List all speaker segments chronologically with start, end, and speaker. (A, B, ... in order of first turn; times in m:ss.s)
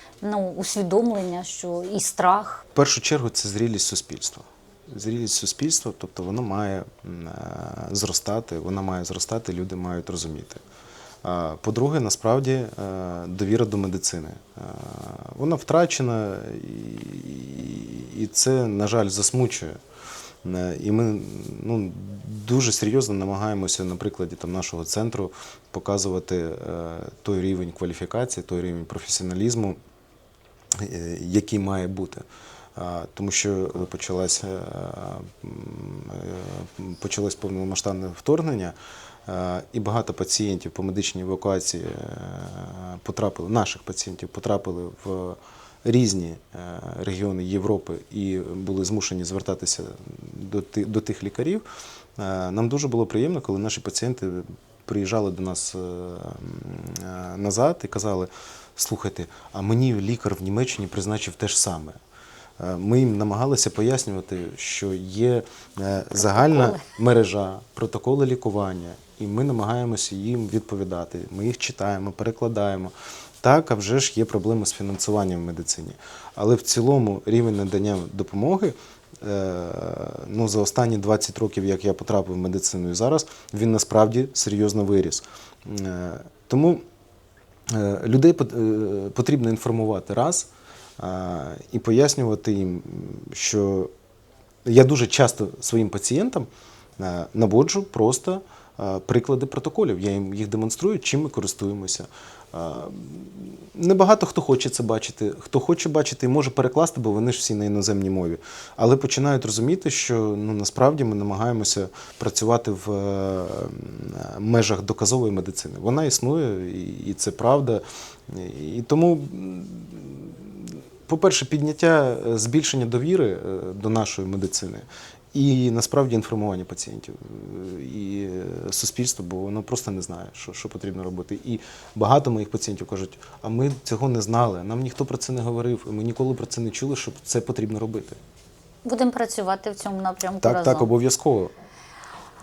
0:00.2-0:02.6 A
0:02.7-0:10.6 B
0:11.2-0:19.8 B
0:20.4-0:29.8 B
0:30.8-0:32.2 B
0:32.8-0:38.8 B
0:39.3-0:51.6 B
0:52.2-1:02.0 B
1:02.6-1:26.8 B
1:06.2-1:06.8 A
1:27.7-1:33.9 B
1:34.6-2:18.2 B
2:18.8-2:20.9 A
2:20.4-2:21.5 B